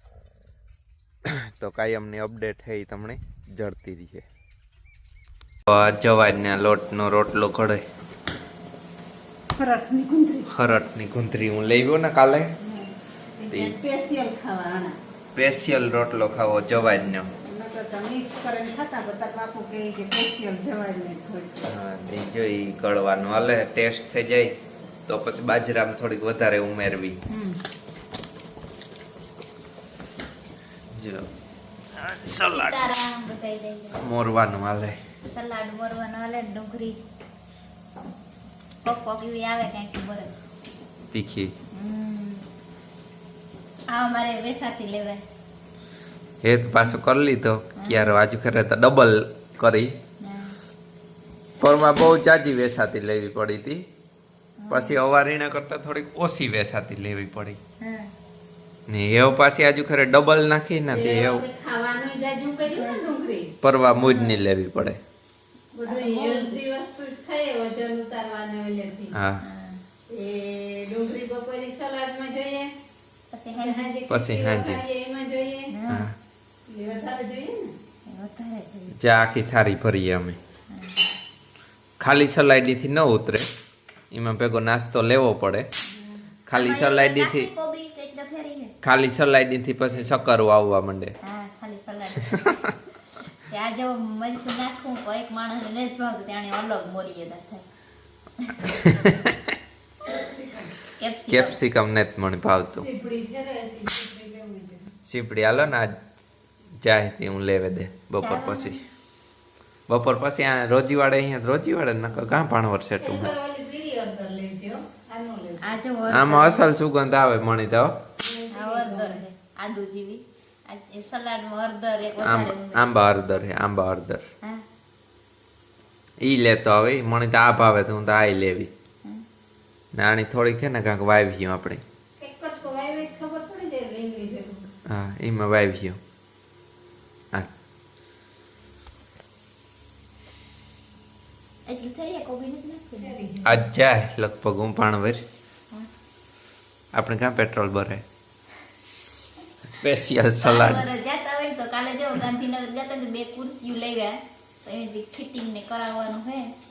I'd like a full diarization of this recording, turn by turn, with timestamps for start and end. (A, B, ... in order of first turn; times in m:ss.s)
0:01.3-0:04.2 A
0:05.7-0:07.8 A
0:09.6-0:10.5 B
0:10.5-0:12.5 A
0:12.6-0:15.0 B
0:13.5-0:13.8 A
0:15.3-0:17.3 A
0:17.4-0:21.6 B
0:21.6-0:24.5 A
0:25.1-0:27.2 A
0:27.3-0:27.6 B
0:30.9-0:31.3 A
0:32.0-0:32.8 A
0:32.4-0:34.0 C
0:34.0-0:35.0 A
0:35.2-0:37.0 C
0:38.8-0:40.3 C
0:41.1-0:41.5 A
0:41.7-0:42.4 C
0:43.9-0:45.2 C
0:46.4-0:50.0 A
0:47.8-0:48.2 C
0:50.2-0:50.6 C
0:51.6-0:53.8 A
0:54.6-0:55.0 C
0:54.7-0:57.6 A
0:57.8-0:58.1 C
0:58.9-1:01.4 A
1:00.9-1:03.5 B
1:02.7-1:03.0 C
1:03.6-1:05.0 A
1:04.0-1:04.3 C
1:05.7-1:09.1 B
1:05.8-1:06.6 C
1:09.1-1:09.4 A
1:09.4-1:09.8 C
1:10.1-1:12.7 B
1:13.3-1:13.9 C
1:13.6-1:15.7 B
1:14.1-1:14.8 A
1:15.7-1:16.1 C
1:15.9-1:16.1 A
1:16.7-1:17.7 B
1:18.1-1:18.9 C
1:18.9-1:20.4 A
1:20.7-1:21.1 C
1:22.0-1:23.5 A
1:24.1-1:25.7 A
1:26.5-1:27.5 A
1:26.5-1:28.7 C
1:28.8-1:31.2 A
1:31.2-1:32.7 C
1:33.3-1:37.6 C
1:38.4-1:38.7 C
1:38.6-1:39.4 A
1:40.0-1:40.7 B
1:40.9-1:41.5 C
1:41.3-1:42.8 A
1:42.8-1:44.9 B
1:45.0-1:46.0 A
1:46.8-1:48.8 A
1:48.2-1:48.8 C
1:49.9-1:53.3 A
1:53.0-1:55.7 B
1:55.6-1:56.7 C
1:56.1-1:58.0 A
1:58.2-1:59.2 B
1:58.5-2:02.8 C
2:02.2-2:04.2 A
2:06.2-2:08.7 A
2:09.9-2:11.8 A
2:12.2-2:14.6 B
2:14.9-2:16.0 A
2:21.7-2:23.5 C
2:23.0-2:23.4 B
2:23.4-2:25.2 A
2:26.9-2:28.0 A
2:29.6-2:30.9 A
2:30.4-2:36.5 C